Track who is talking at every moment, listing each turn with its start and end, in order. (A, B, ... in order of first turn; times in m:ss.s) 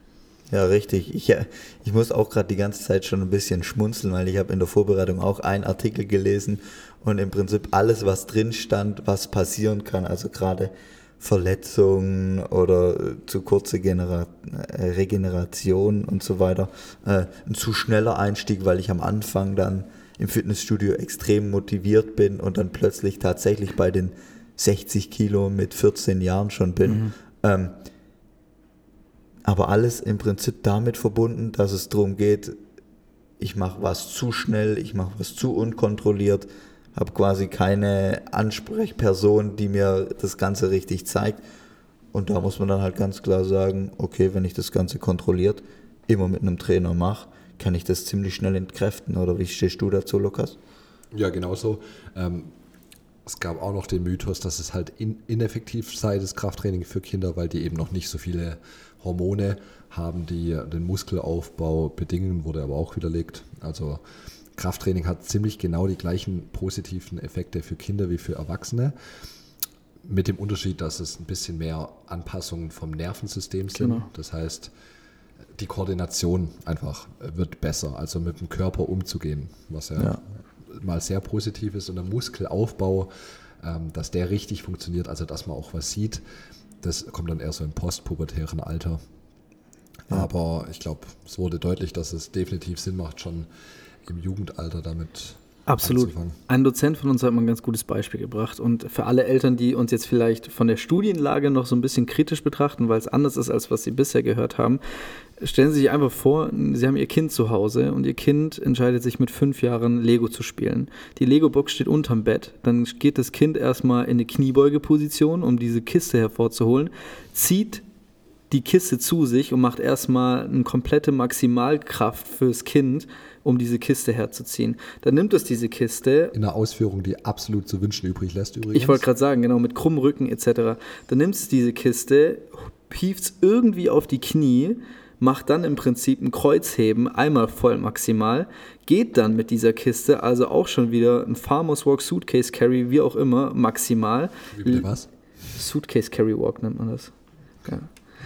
0:00.5-0:27.8 A
0:26.8-0:27.1 B
0:29.4-0:32.6 A
0:33.4-0:41.4 A
0:42.1-0:50.6 A
0:51.1-0:52.5 C
0:53.2-1:04.0 C
1:04.5-1:08.9 C
1:10.0-1:14.7 C
1:13.7-1:14.1 B
1:15.6-1:23.1 C
1:23.6-1:26.2 C
1:26.8-1:29.0 C
1:30.1-1:33.5 C
1:34.0-1:36.4 C
1:35.7-1:44.8 B
1:45.4-1:57.8 B
1:58.5-2:06.4 B
2:06.4-2:09.0 C
2:08.7-2:24.9 B
2:24.5-2:25.1 C
2:25.5-2:27.1 B